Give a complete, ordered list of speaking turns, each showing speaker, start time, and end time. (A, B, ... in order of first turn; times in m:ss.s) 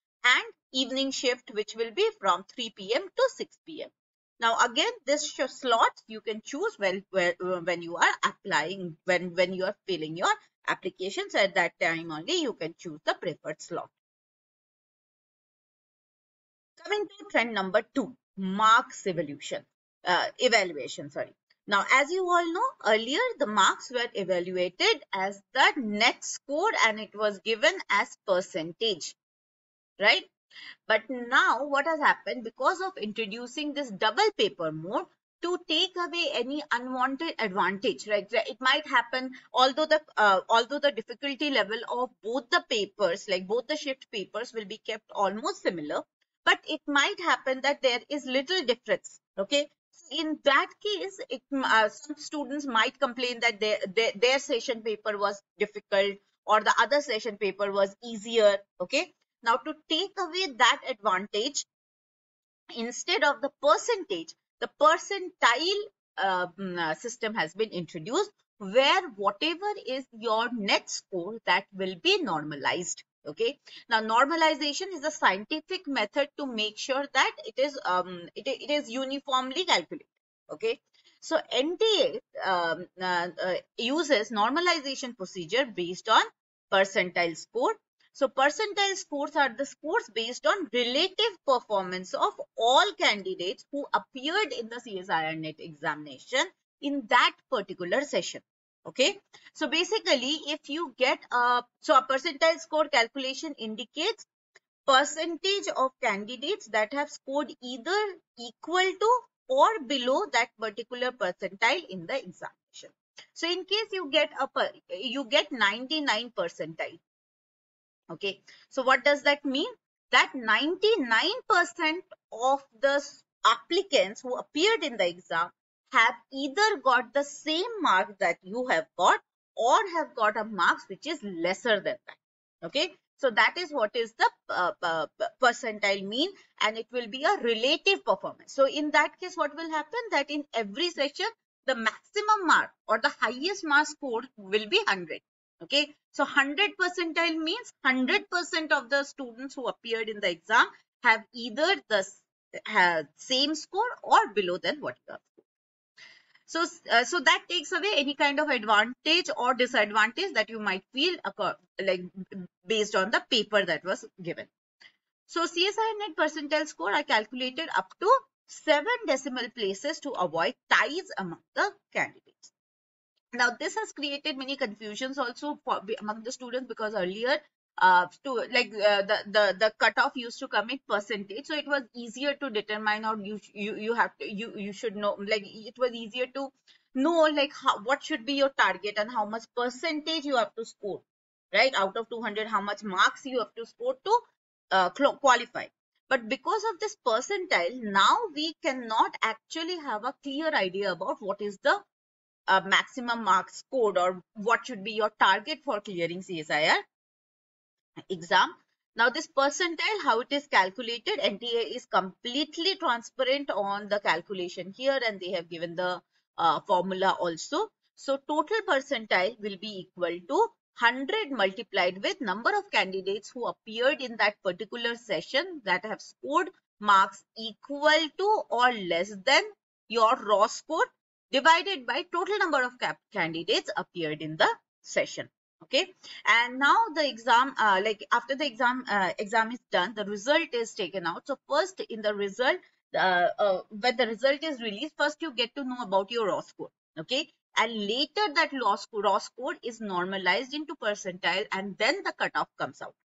0:00.2-0:13.9 A
0:16.8-0:29.2 A
0:30.0-0:30.3 A
0:30.9-1:01.7 A
1:02.7-1:44.3 A
1:44.9-1:57.0 A
1:58.1-2:35.4 A
2:36.5-2:44.5 A
2:45.3-2:52.5 A
2:53.3-3:21.8 A
3:22.5-3:26.8 A
3:28.1-4:13.0 A